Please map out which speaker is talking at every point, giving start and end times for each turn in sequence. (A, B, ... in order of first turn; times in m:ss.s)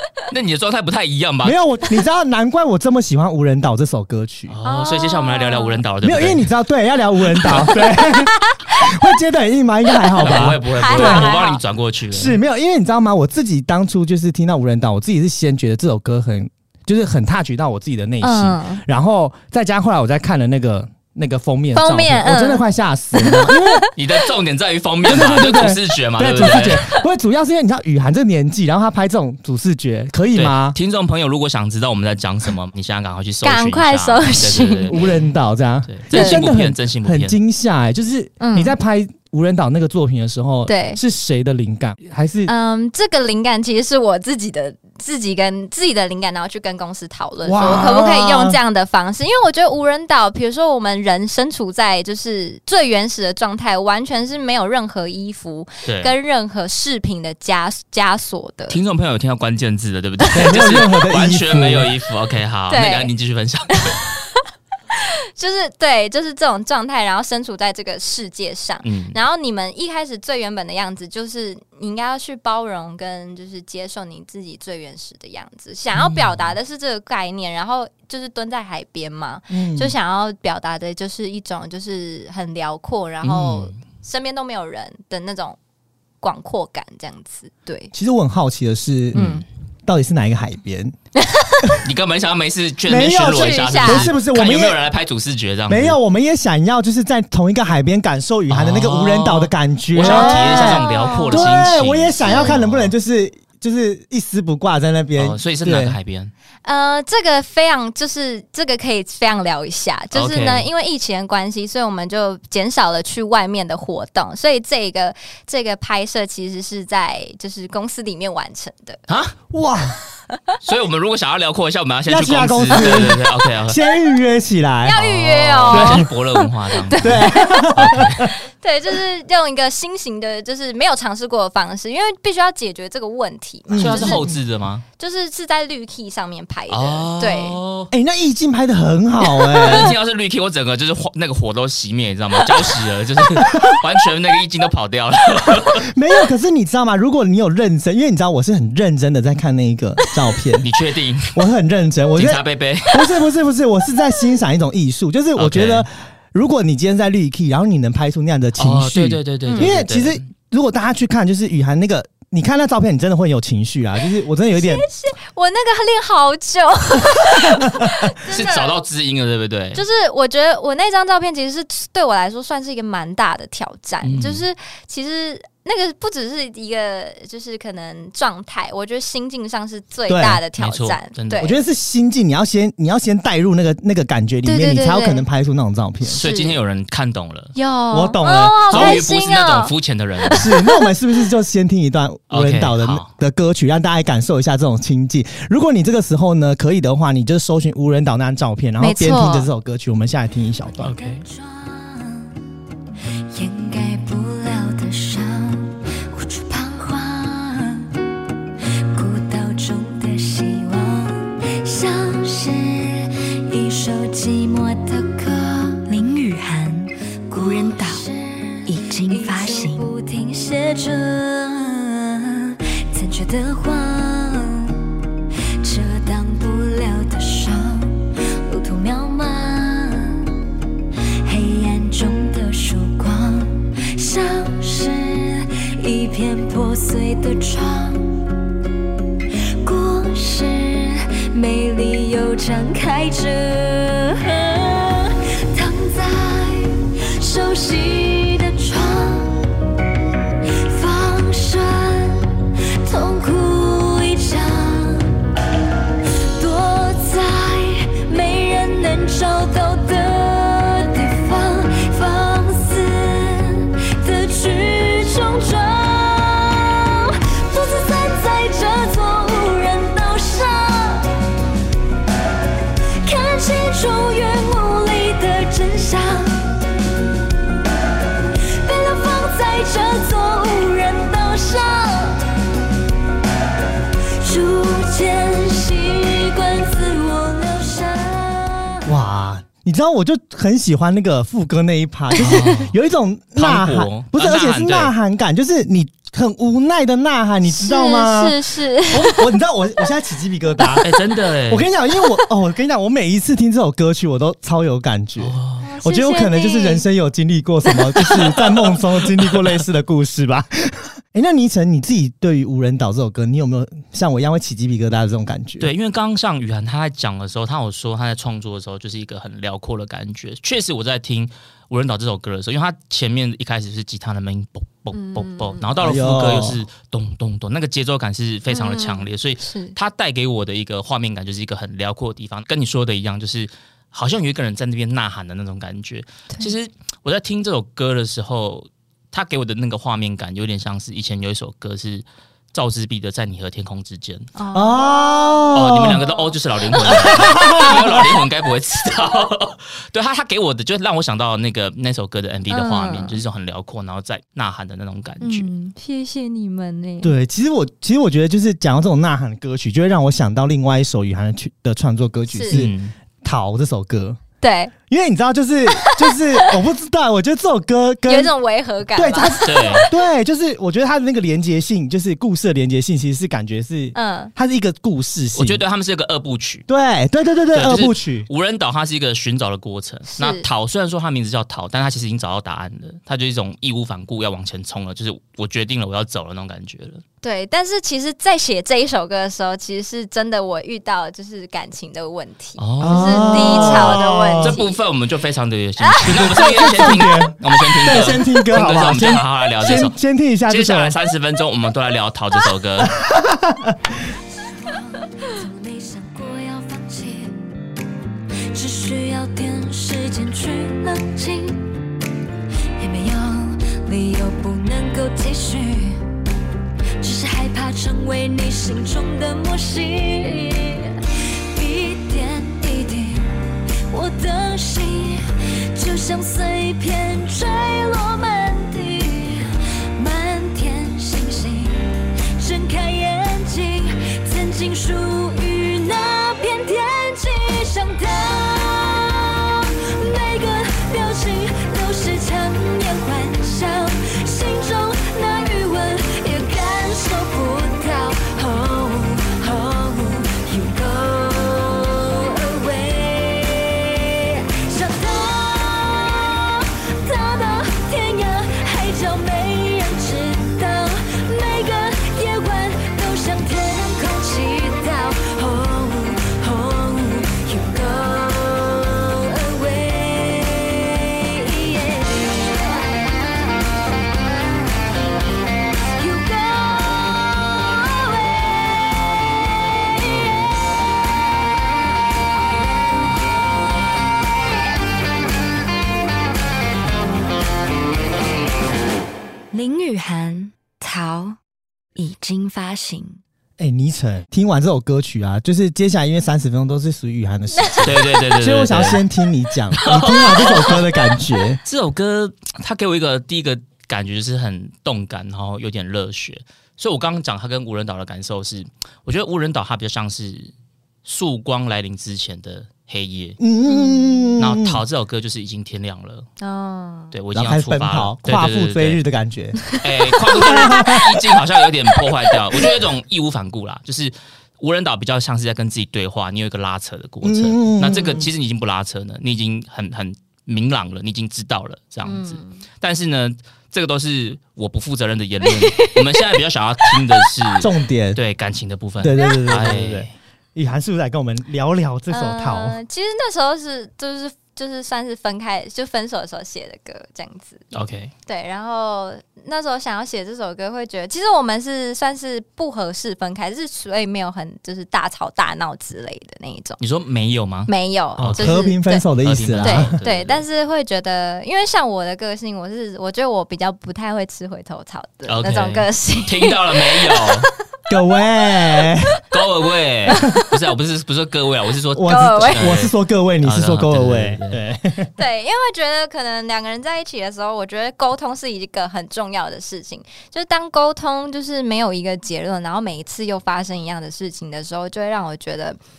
0:00.3-0:01.6 A
0:01.4-0:04.6 B
0:04.5-0:06.5 A
0:04.6-0:05.8 C
0:06.0-0:11.5 B
0:07.4-0:07.8 A
0:07.9-0:09.1 C
0:10.1-0:11.6 C
0:10.2-0:12.4 A
0:12.1-0:23.8 B
0:18.2-0:18.8 C
0:21.7-0:22.6 C
0:23.2-0:23.9 C
0:24.0-0:26.9 A
0:25.0-0:30.8 B
0:30.4-0:35.3 A
0:33.4-0:35.0 C
0:34.9-0:42.5 B
0:35.9-0:37.4 A
0:36.1-0:36.5 C
0:38.4-0:38.8 C
0:40.7-0:41.0 C
0:42.5-0:58.8 C
0:47.4-0:48.6 B
0:55.9-0:56.1 A
0:58.7-1:04.0 A
1:00.3-1:01.9 B
1:02.7-1:03.1 C
1:05.4-1:25.6 C
1:08.8-1:09.2 A
1:16.0-1:16.4 A
1:19.5-1:19.9 B
1:23.2-1:23.8 A
1:26.2-1:27.9 C
1:27.9-1:29.3 B
1:29.1-1:29.4 A
1:29.2-1:29.4 C
1:29.9-1:30.9 B
1:31.2-1:31.8 C
1:31.8-1:36.0 A
1:32.9-1:34.8 B
1:33.2-1:34.1 C
1:35.7-1:46.0 B
1:38.5-1:42.9 A
1:40.0-1:42.5 C
1:45.2-1:46.3 A
1:46.6-1:59.0 C
1:50.1-1:50.7 A
1:59.1-1:59.4 A
1:59.5-2:00.0 B
2:00.3-2:00.6 C
2:00.6-2:03.8 A
2:02.1-2:05.0 B
2:04.8-2:07.7 C
2:05.0-2:08.3 A
2:05.7-2:06.1 B
2:07.0-2:08.3 B
2:08.2-2:14.2 C
2:13.7-2:14.4 B
2:13.8-2:14.8 A
2:15.0-2:17.6 C
2:16.7-2:17.9 A
2:17.9-2:20.0 B
2:19.6-2:19.9 C
2:19.6-2:25.9 A
2:23.4-2:23.8 B
2:25.7-2:30.7 B
2:30.6-2:31.4 A
2:31.3-2:44.8 B
2:32.2-2:33.1 A
2:35.4-2:35.9 A
2:38.6-2:40.2 A
2:39.5-2:39.7 C
2:44.6-2:48.8 C
2:47.5-2:47.9 B
2:48.2-2:49.8 A
2:49.8-3:01.6 C
2:54.0-2:54.5 A
3:00.1-3:00.4 B
3:00.6-3:01.5 A
3:01.4-3:06.2 B
3:04.5-3:05.3 C
3:06.1-3:07.5 A
3:06.2-3:06.6 C
3:07.6-3:10.9 C
3:07.9-3:09.0 B
3:08.7-3:10.5 A
3:10.3-3:21.0 B
3:12.3-3:13.1 A
3:18.8-3:19.5 C
3:20.8-3:22.3 D
3:20.8-3:21.2 A
3:23.3-3:28.0 D
3:28.9-3:35.9 D
3:35.9-3:38.1 E
3:37.3-3:44.8 D
3:38.7-3:39.9 E
3:45.6-3:50.3 D
3:51.2-3:58.2 D
3:59.6-4:09.5 D
4:10.6-4:15.1 D
4:16.0-4:31.1 D
4:33.0-4:36.4 D
4:38.6-4:42.2 D
4:44.2-4:48.8 D
4:48.9-5:00.9 B
4:52.2-4:52.8 A
4:53.4-4:54.9 A
4:57.4-4:59.3 C
5:00.8-5:01.7 A
5:01.5-5:15.7 B
5:05.2-5:05.6 A
5:05.6-5:06.9 C
5:15.6-5:44.3 A
5:24.9-5:25.6 C
5:25.8-5:26.6 B
5:28.5-5:29.8 C
5:44.4-5:44.9 C
5:44.5-5:46.0 B
5:45.5-5:55.5 A
5:46.8-5:48.1 B
5:52.5-5:53.2 C
5:55.2-5:57.2 C
5:57.0-6:04.2 B
6:02.3-6:02.7 C
6:02.5-6:02.9 A
6:04.4-6:04.7 C
6:04.9-6:08.3 B
6:05.8-6:06.5 C
6:08.1-6:09.8 C
6:09.0-6:15.6 B
6:09.4-6:09.9 A
6:14.0-6:14.3 C
6:15.4-6:16.6 A
6:16.7-6:18.3 B
6:17.5-6:27.0 A
6:20.1-6:20.5 C
6:27.2-6:34.8 C
6:32.6-6:40.0 A
6:32.8-6:34.6 B
6:35.8-6:36.5 C
6:36.0-6:41.0 B
6:40.5-6:43.0 A
6:42.8-6:43.8 B
6:44.1-6:47.4 D
6:48.5-6:51.7 D
6:52.8-6:56.0 D
6:57.0-7:53.1 D
7:55.9-7:59.3 D
8:09.5-8:11.4 D
8:12.0-8:13.2 D
8:13.6-8:21.6 B
8:17.5-8:18.1 C
8:17.8-8:19.0 A
8:19.7-8:20.9 A
8:21.6-8:30.5 A
8:31.0-8:33.4 A
8:33.4-8:34.8 B
8:33.6-8:34.4 C
8:34.4-8:36.3 A
8:36.4-8:37.1 C
8:37.1-8:39.0 A
8:37.3-8:39.6 B
8:39.8-9:00.1 A
8:40.3-8:41.2 B
8:40.4-8:40.9 C
8:47.2-8:48.3 B
8:52.0-8:52.6 C
8:55.4-8:56.4 C
8:56.9-8:57.2 C
8:57.6-8:58.2 B
8:59.0-9:02.8 B
8:59.2-8:59.7 C
9:02.1-9:07.7 C
9:07.7-9:08.1 A
9:08.3-9:16.8 C
9:16.8-9:18.7 A
9:17.7-9:19.1 C
9:18.2-9:20.0 B
9:19.2-9:20.4 A
9:19.6-9:27.4 C
9:25.3-9:27.5 A
9:27.9-9:29.2 B
9:29.3-9:34.6 A
9:30.1-9:30.5 C
9:32.0-9:35.1 B
9:32.0-9:32.8 C
9:35.2-9:45.8 C